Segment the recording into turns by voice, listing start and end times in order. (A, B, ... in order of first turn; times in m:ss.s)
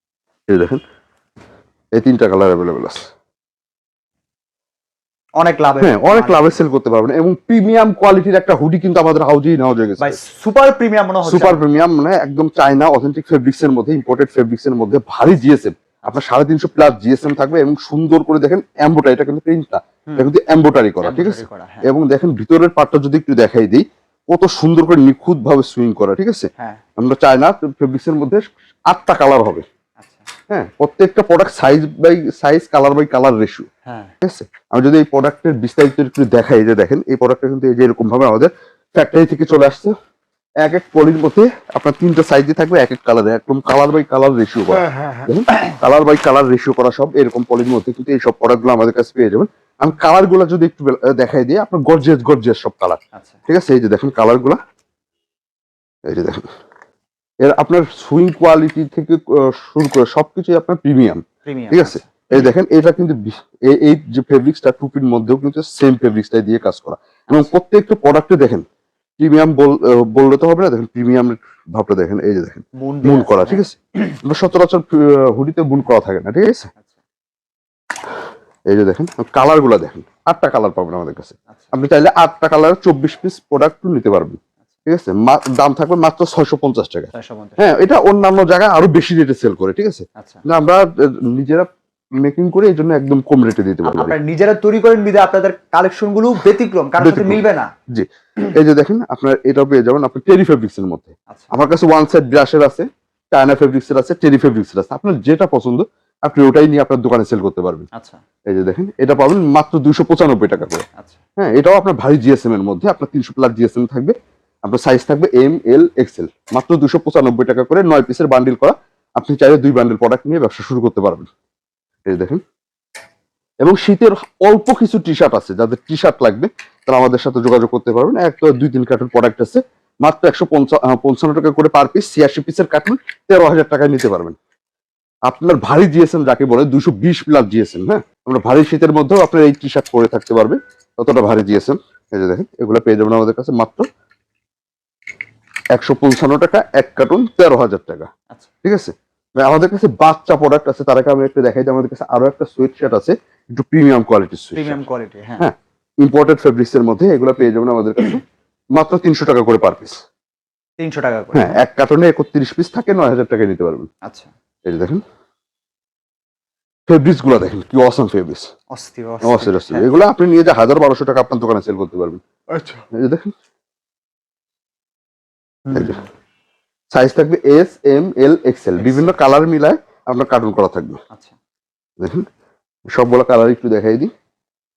0:00.5-0:00.8 A
0:01.9-0:03.0 A
0:05.4-0:06.6 B
0:05.8-0:10.2 A
0:10.0-0:11.6 B
0:11.2-0:29.6 A
0:21.0-0:21.9 B
0:30.0-0:30.3 B
0:30.5-0:33.7 A
0:33.8-0:34.1 B
0:34.2-0:39.9 A
0:40.6-0:54.6 A
0:53.1-0:53.4 B
0:56.0-0:56.5 A
0:57.4-1:08.6 A
1:01.4-1:02.2 B
1:09.2-1:16.7 A
1:12.7-1:13.6 B
1:18.7-1:34.1 A
1:27.1-1:27.6 B
1:30.2-1:30.4 B
1:33.8-1:37.7 B
1:37.0-1:47.9 A
1:47.9-1:48.2 B
1:48.5-1:50.8 A
1:51.4-2:01.3 A
2:02.1-2:02.4 A
2:03.6-2:14.4 A
2:15.3-2:23.8 A
2:25.7-2:28.1 A
2:28.6-2:34.8 A
2:34.6-2:35.5 B
2:35.4-2:38.2 A
2:38.7-2:40.0 A
2:40.8-2:41.6 B
2:41.3-2:43.9 A
2:44.0-2:44.3 B
2:44.7-2:45.0 A
2:46.9-2:48.5 A
2:48.7-2:49.9 B
2:49.2-2:52.2 A
2:52.5-2:52.8 B
2:52.9-2:53.3 A
2:55.7-2:56.1 B
2:55.7-2:56.0 A
2:56.9-3:01.0 A
2:58.8-2:59.2 B
3:02.0-3:02.3 A
3:02.9-3:04.1 A